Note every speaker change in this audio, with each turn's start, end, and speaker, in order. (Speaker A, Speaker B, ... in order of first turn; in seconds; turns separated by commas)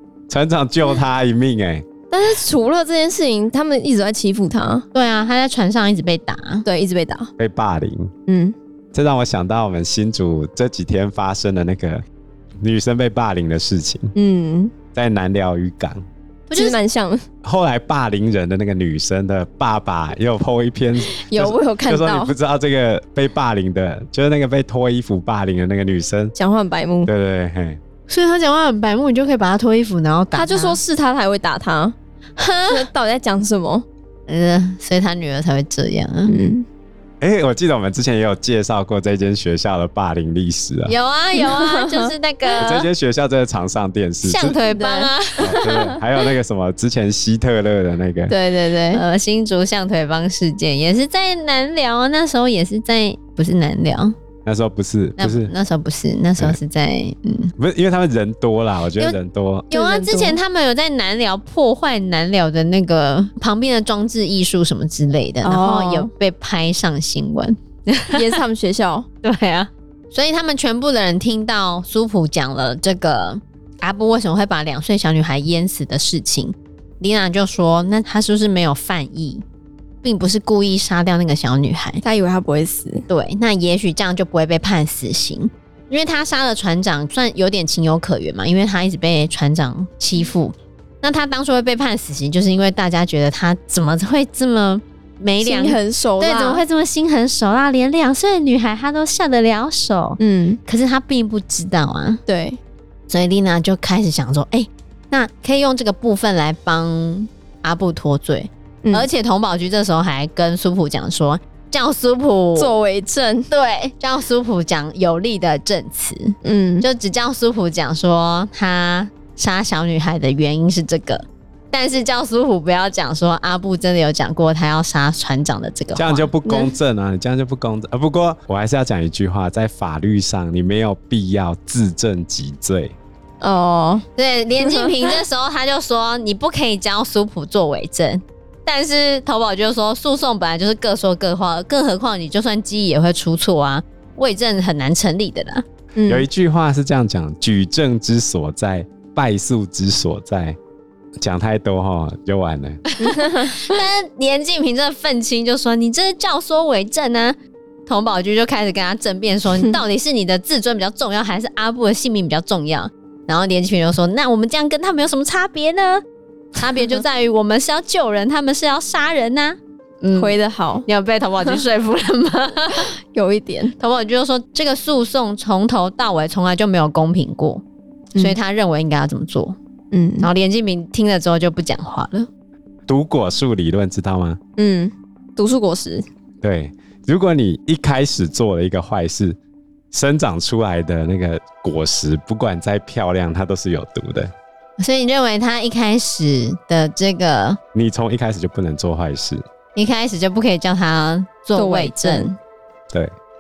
Speaker A: 0.3-1.9, Speaker B: 2.1-4.9, Speaker C: 4.9-6.7, Speaker B: 6.7-7.3, Speaker A: 7.4-8.1, Speaker B: 8.3-8.6, Speaker A: 8.9-12.0, Speaker A: 12.6-14.1, Speaker B: 14.2-14.7, Speaker A: 14.9-16.0, Speaker C: 16.5-16.8, Speaker B: 16.5-17.2, Speaker A: 17.4-26.3, Speaker B: 21.0-22.3, Speaker B: 26.4-27.1, Speaker A: 27.1-27.8, Speaker C: 28.1-30.8, Speaker B: 30.3-31.9, Speaker C: 32.4-32.9, Speaker B: 32.7-33.9, Speaker C: 34.3-36.4, Speaker B: 36.3-36.7, Speaker A: 37.2-40.9, Speaker C: 40.9-42.9, Speaker B: 41.4-42.7, Speaker A: 42.6-44.6, Speaker C: 44.2-45.6, Speaker B: 44.7-46.0, Speaker A: 45.4-48.4, Speaker B: 48.3-49.0, Speaker C: 48.9-54.1, Speaker A: 54.5-55.5, Speaker C: 55.2-57.5, Speaker A: 57.6-59.7, Speaker C: 59.7-68.3, Speaker B: 59.7-60.4, Speaker B: 65.4-66.1, Speaker B: 68.1-69.1, Speaker C: 69.2-79.4, Speaker C: 80.0-82.0, Speaker B: 82.0-83.1, Speaker C: 83.1-102.2, Speaker B: 95.4-96.6, Speaker B: 100.2-100.6, Speaker B: 102.3-102.6, Speaker C: 103.1-112.7, Speaker B: 108.8-109.1, Speaker B: 112.6-113.5, Speaker C: 113.5-126.3, Speaker B: 116.4-116.9, Speaker A: 126.0-133.0, Speaker B: 126.5-126.8, Speaker B: 133.4-134.1, Speaker C: 134.2-145.7, Speaker B: 134.6-135.2, Speaker B: 146.0-146.3, Speaker A: 146.1-150.6, Speaker A: 151.2-152.8, Speaker C: 152.9-166.0, Speaker B: 153.0-153.7, Speaker C: 166.6-172.9, Speaker B: 170.1-170.9, Speaker B: 173.0-173.8, Speaker C: 173.8-177.6, Speaker C: 178.2-179.6, Speaker B: 179.9-180.3, Speaker C: 180.2-182.3, Speaker A: 182.9-184.4, Speaker B: 184.6-186.1, Speaker A: 186.4-189.4, Speaker A: 189.9-194.3, Speaker C: 194.8-197.6, Speaker A: 197.7-199.4, Speaker C: 199.8-202.4, Speaker B: 201.6-202.3